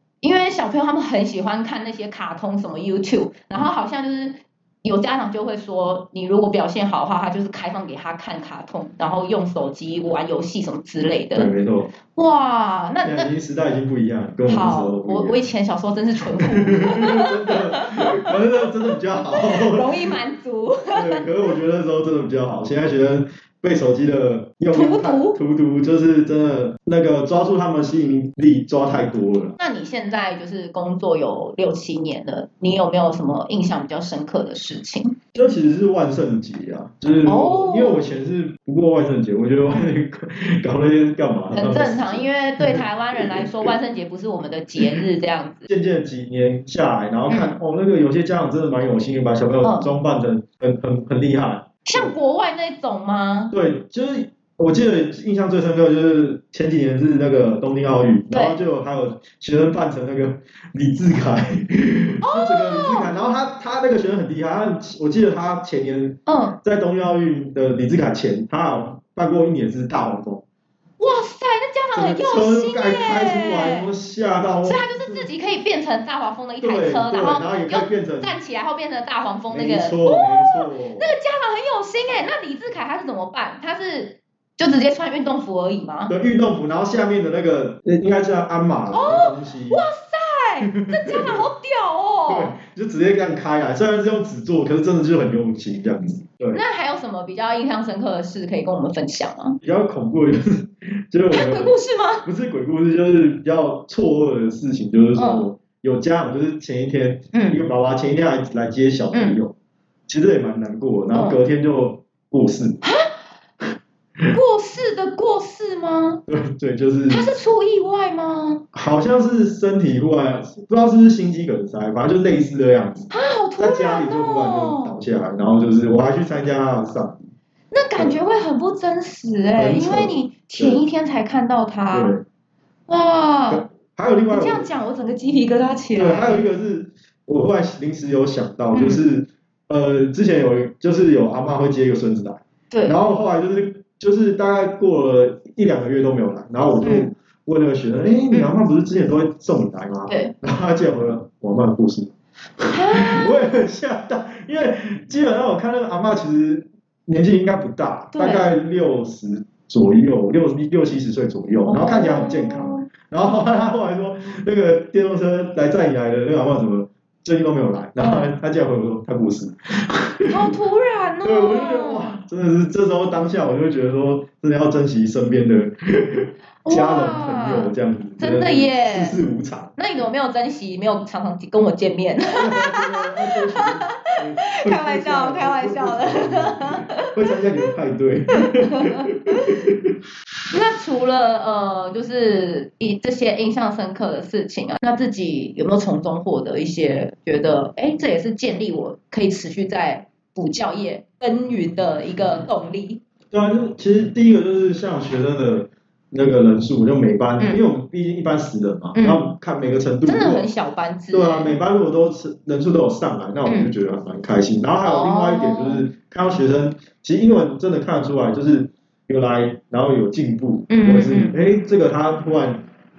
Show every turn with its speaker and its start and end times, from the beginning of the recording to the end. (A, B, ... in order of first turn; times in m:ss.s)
0:00.2-0:11.5 A
0:11.4-0:11.9 B
0:12.1-0:13.3 A
0:13.0-0:15.4 B
0:14.5-0:21.2 A
0:16.4-0:20.2 B
0:20.9-0:29.6 B
0:24.7-0:25.4 A
0:29.6-0:35.2 A
0:35.3-0:43.5 B
0:37.2-0:38.0 A
0:41.5-0:45.7 A
0:45.7-0:52.1 B
0:47.3-0:47.6 A
0:49.6-0:49.9 A
0:51.8-0:53.5 A
0:53.5-1:10.4 B
0:58.3-0:58.6 A
1:02.2-1:03.1 A
1:06.3-1:06.6 A
1:11.0-1:13.9 A
1:12.0-1:15.3 B
1:14.6-1:26.1 A
1:16.6-1:18.4 B
1:19.5-1:21.1 B
1:26.1-1:29.8 B
1:28.9-1:32.6 A
1:30.7-1:31.4 B
1:32.3-1:36.6 B
1:36.5-1:39.6 A
1:39.6-1:49.5 B
1:41.3-1:42.3 A
1:45.2-1:45.5 A
1:47.3-1:47.6 A
1:49.1-1:49.4 A
1:50.1-1:52.8 B
1:51.1-1:51.4 A
1:52.8-1:53.1 A
1:54.3-1:56.2 A
1:56.3-1:57.3 B
1:57.1-1:58.6 A
1:58.7-2:07.3 B
2:03.1-2:05.0 A
2:07.7-2:12.1 A
2:09.6-2:10.8 B
2:11.9-2:12.2 B
2:12.9-2:13.6 A
2:13.5-2:14.6 B
2:14.3-2:16.4 A
2:16.0-2:50.5 B
2:18.7-2:19.0 A
2:22.7-2:23.0 A
2:26.8-2:27.1 A
2:30.1-2:30.3 A
2:32.7-2:33.4 A
2:38.1-2:38.5 A
2:41.7-2:42.9 A
2:48.0-2:48.3 A
2:50.3-2:52.2 A
2:51.2-2:59.8 B
2:56.6-2:59.2 A
2:59.8-3:07.1 A
3:02.4-3:09.9 B
3:08.4-3:09.6 A
3:10.5-3:23.0 A
3:23.3-3:30.5 B
3:29.0-3:29.3 A
3:30.0-3:31.6 A
3:31.1-3:42.6 B
3:33.5-3:33.7 A
3:34.8-3:35.9 A
3:40.7-3:41.4 A